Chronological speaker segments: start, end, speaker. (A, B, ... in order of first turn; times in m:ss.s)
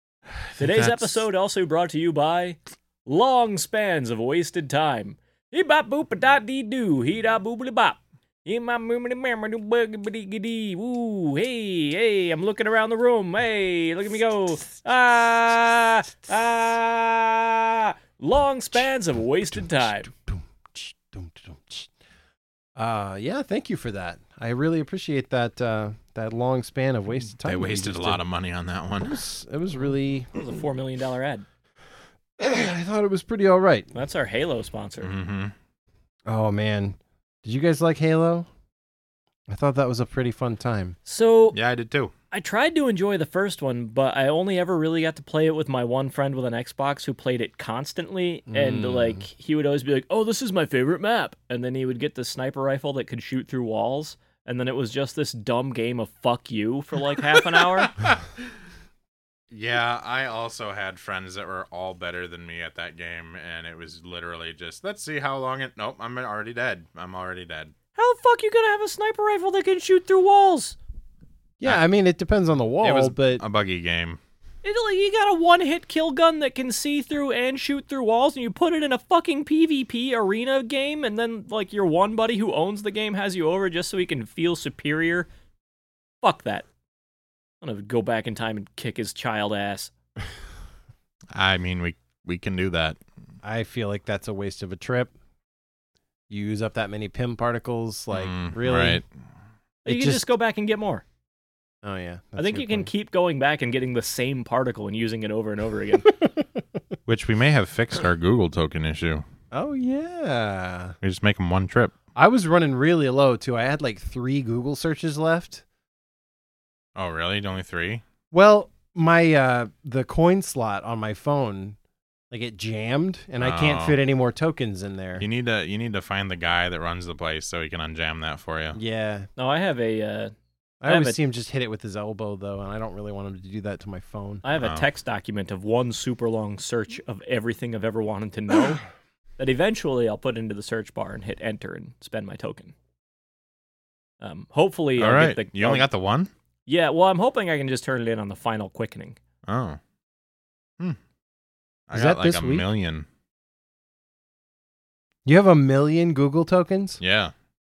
0:00.4-0:01.2 A
0:00.6-0:20.1 B
0:19.6-0:21.9 C
0:22.8-0:28.2 C
0:27.4-0:29.2 A
0:29.0-0:30.3 C
0:30.3-0:31.5 B
0:32.4-0:33.9 C
0:33.9-0:35.1 B
0:35.0-0:35.5 A
0:36.3-0:38.5 C
0:39.5-0:41.0 C
0:41.1-0:41.6 B
0:41.5-0:42.1 A
0:42.3-0:57.9 B
0:48.5-0:49.2 C
0:59.5-1:07.7 A
1:08.0-1:10.8 B
1:11.6-1:13.4 C
1:12.8-1:14.2 A
1:14.6-1:25.3 B
1:26.2-1:26.7 B
1:27.6-1:29.9 B
1:31.3-1:33.0 A
1:33.4-1:35.1 C
1:36.3-1:39.0 C
1:38.1-1:39.0 A
1:39.8-1:41.0 B
1:39.9-1:40.3 C
1:41.8-1:42.9 C
1:42.4-1:46.1 B
1:47.1-1:49.2 A
1:49.5-1:51.0 C
1:51.0-1:52.0 A
1:52.2-1:55.6 C
1:57.0-1:58.0 A
1:58.3-2:01.8 C
2:02.3-2:05.2 C
2:03.4-2:04.0 A
2:05.2-2:08.8 A
2:08.7-2:09.3 C
2:09.4-2:10.3 B
2:10.8-2:14.4 C
2:10.9-2:11.2 B
2:14.4-2:18.8 B
2:14.6-2:14.8 A
2:19.4-2:22.7 B
2:24.2-2:25.9 B
2:25.0-2:26.3 A
2:26.7-2:29.2 B
2:29.5-2:29.8 A
2:31.9-2:33.1 A
2:31.9-2:32.7 C
2:35.2-2:37.0 C
2:37.0-2:37.3 A